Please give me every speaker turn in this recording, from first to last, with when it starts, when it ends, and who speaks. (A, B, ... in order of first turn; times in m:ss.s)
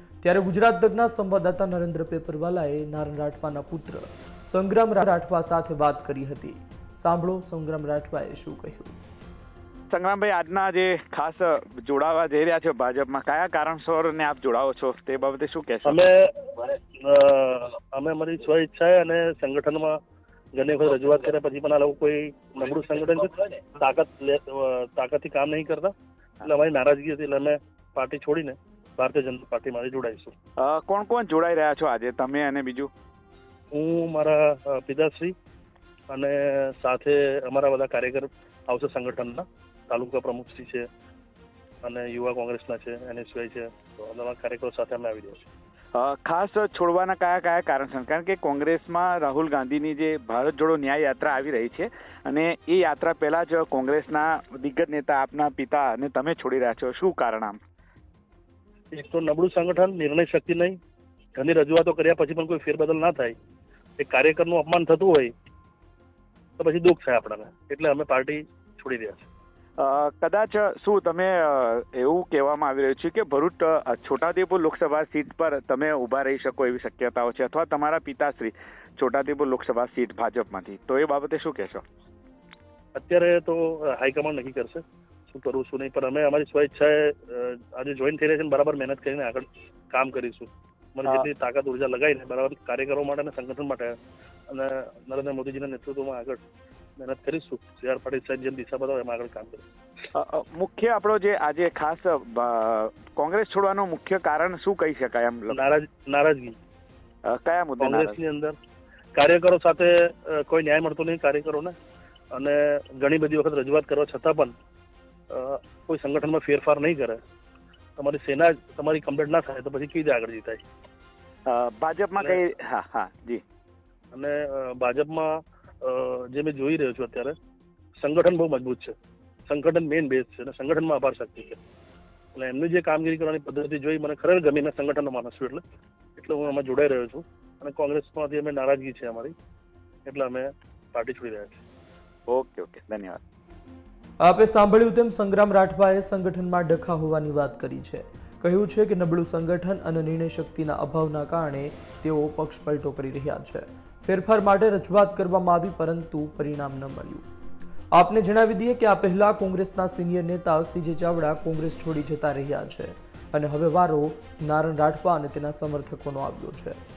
0:00.2-0:09.0 A
0:09.9-0:16.0 B
0:15.8-0:20.0 C
0:20.6-0:30.3 C
0:30.6-0:32.9 B
0:33.7-0:35.3 C
0:36.1-0:40.9 C
0:41.8-0:45.5 C
0:46.0-0:57.6 B
0:58.9-1:00.8 C
1:01.4-1:03.4 C
1:04.0-1:05.3 C
1:06.6-1:09.3 C
1:09.8-1:21.8 B
1:23.0-1:34.0 C
1:34.5-1:36.4 C
1:37.0-1:39.7 C
1:40.2-1:45.6 B
1:45.5-1:46.6 C
1:47.2-1:48.2 B
1:47.8-1:48.6 C
1:49.2-1:51.7 C
1:52.3-1:54.5 C
1:55.3-1:57.2 C
1:58.0-2:00.6 C
2:01.5-2:03.4 B
2:04.1-2:07.3 C
2:08.0-2:08.9 C
2:09.5-2:11.6 C
2:12.4-2:15.6 C
2:16.2-2:19.3 C
2:20.1-2:21.6 C
2:22.3-2:23.2 B
2:24.2-2:37.2 A
2:38.0-2:46.8 A